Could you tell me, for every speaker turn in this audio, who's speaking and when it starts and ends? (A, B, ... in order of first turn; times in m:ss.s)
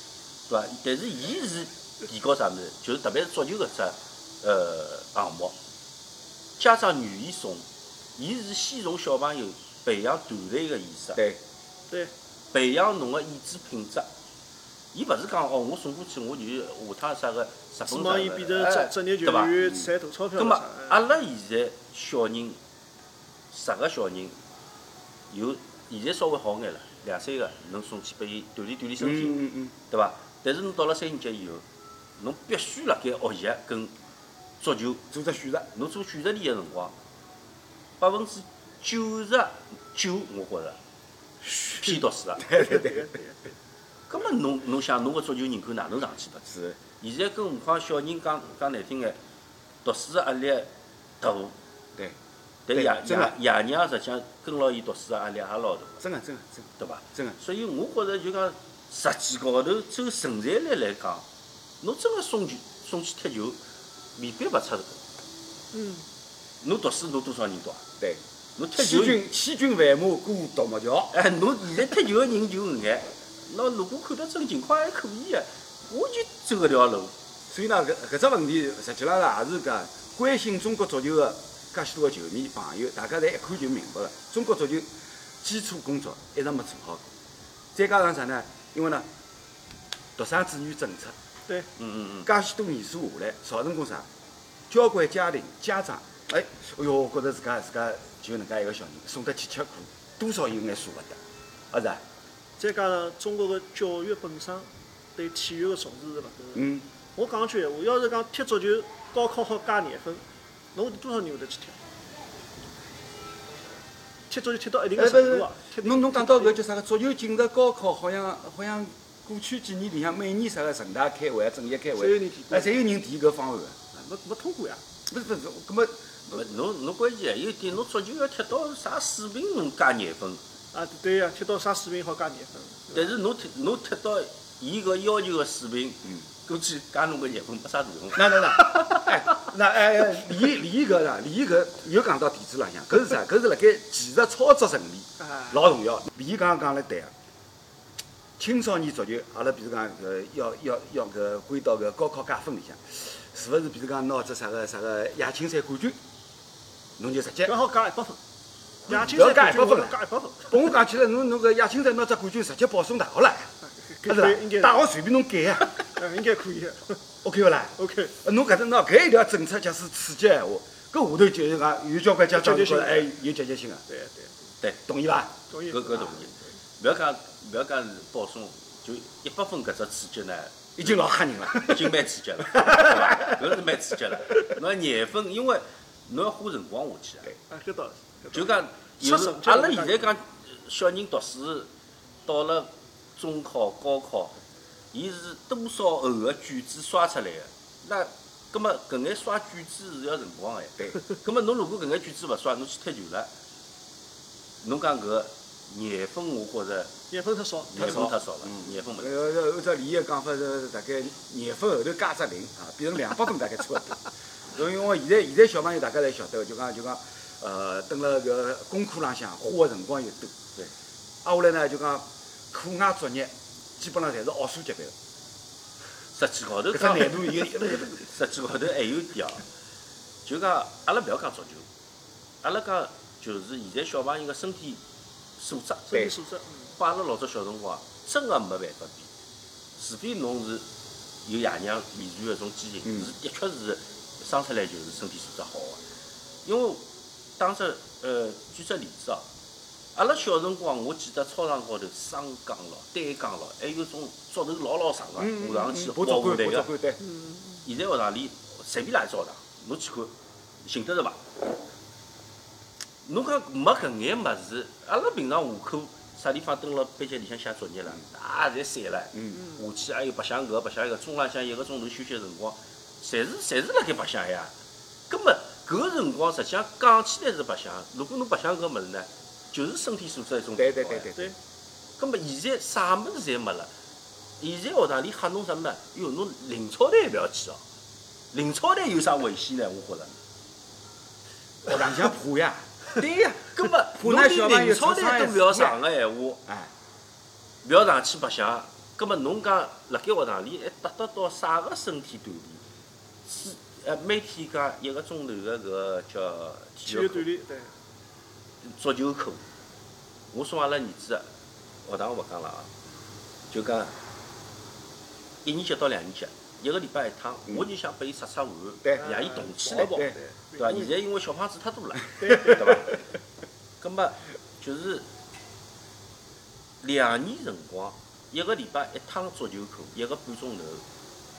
0:00.5-0:05.6 A
0:06.6-0:07.6 A
0:08.2-0:11.2 A
0:11.2-0:11.4 B
0:12.5-0:14.1 A
0:14.9-0:19.6 A
0:17.9-0:21.0 C
0:20.4-0:22.6 A
0:23.5-0:24.4 A
0:25.3-0:31.6 A
0:29.0-0:29.8 B
0:32.2-0:33.9 A
0:34.6-0:35.0 A
0:35.1-0:35.7 B
0:35.7-0:36.9 A
0:38.0-0:40.8 A
0:41.4-0:43.1 B
0:41.7-0:42.5 A
0:42.5-0:43.4 C
0:44.1-0:49.2 A
0:46.5-0:46.8 B
0:49.8-0:50.7 A
0:51.2-0:51.6 A
0:52.7-0:56.0 A
0:52.7-0:53.4 B
0:56.0-0:57.4 B
0:56.8-1:01.3 A
1:01.8-1:03.6 A
1:04.2-1:05.0 A
1:05.7-1:06.0 C
1:06.6-1:07.8 A
1:08.6-1:09.2 A
1:08.8-1:11.2 B
1:11.1-1:17.1 A
1:17.5-1:24.9 B
1:25.4-1:27.1 B
1:27.7-1:29.1 B
1:30.2-1:31.1 B
1:31.8-1:32.3 A
1:32.2-1:34.1 B
1:34.7-1:41.2 B
1:41.7-1:42.0 B
1:42.6-1:46.6 C
1:46.6-1:46.9 B
1:47.2-1:50.2 C
1:50.8-1:51.8 C
1:54.3-1:56.6 C
1:55.0-2:03.8 B
2:02.0-2:02.7 C
2:03.9-2:04.8 C
2:05.1-2:06.5 B
2:06.3-2:10.4 A
2:10.7-2:13.1 C
2:12.9-2:19.0 A
2:18.1-2:27.1 B
2:28.4-2:36.0 B
2:37.0-2:37.5 B
2:37.4-2:38.2 C
2:38.9-2:43.5 B
2:38.9-2:40.6 C
2:43.8-2:44.8 C
2:44.0-2:45.7 B
2:45.6-2:47.0 C
2:47.2-2:53.8 B
2:47.8-2:48.2 C
2:52.3-2:53.1 C
2:53.9-2:54.4 C
2:54.9-2:55.4 B
2:55.5-2:56.2 C
2:55.7-3:00.9 A
3:00.8-3:03.6 B
3:01.5-3:07.3 A
3:07.5-3:10.1 C
3:08.3-3:11.7 A
3:12.3-3:14.4 A
3:14.9-3:23.3 A
3:24.6-3:26.9 A
3:27.1-3:28.0 C
3:27.7-3:29.2 A
3:27.7-3:40.3 B
3:41.2-3:44.9 B
3:46.1-3:49.5 A
3:46.7-3:48.0 B
3:50.2-3:51.7 A
3:52.4-3:54.8 A
3:55.4-3:56.1 A
3:55.9-3:56.7 C
3:56.8-3:59.1 A
3:59.8-4:00.7 A
4:01.2-4:05.8 A
4:06.4-4:06.9 A
4:07.4-4:09.3 A
4:10.0-4:16.7 A
4:15.2-4:17.0 B
4:17.6-4:21.3 A
4:23.0-4:34.5 A
4:29.2-4:29.4 B
4:35.1-4:41.1 A
4:40.6-4:41.4 B
4:42.0-4:43.7 A
4:44.4-4:47.6 A
4:48.3-4:50.2 A
4:51.6-4:52.6 B
4:52.9-4:56.4 A
4:53.9-4:55.8 B
4:56.5-4:56.7 B
4:57.6-5:02.6 A
5:03.2-5:07.3 A
5:06.8-5:07.8 C
5:08.6-5:09.4 A
5:10.3-5:11.3 A
5:11.8-5:12.7 A
5:13.5-5:14.0 A
5:15.4-5:20.0 A
5:18.8-5:19.2 B
5:19.0-5:21.0 C
5:19.8-5:20.2 B
5:20.6-5:23.1 A
5:22.2-5:22.8 C
5:23.8-5:25.1 A
5:26.8-5:30.8 A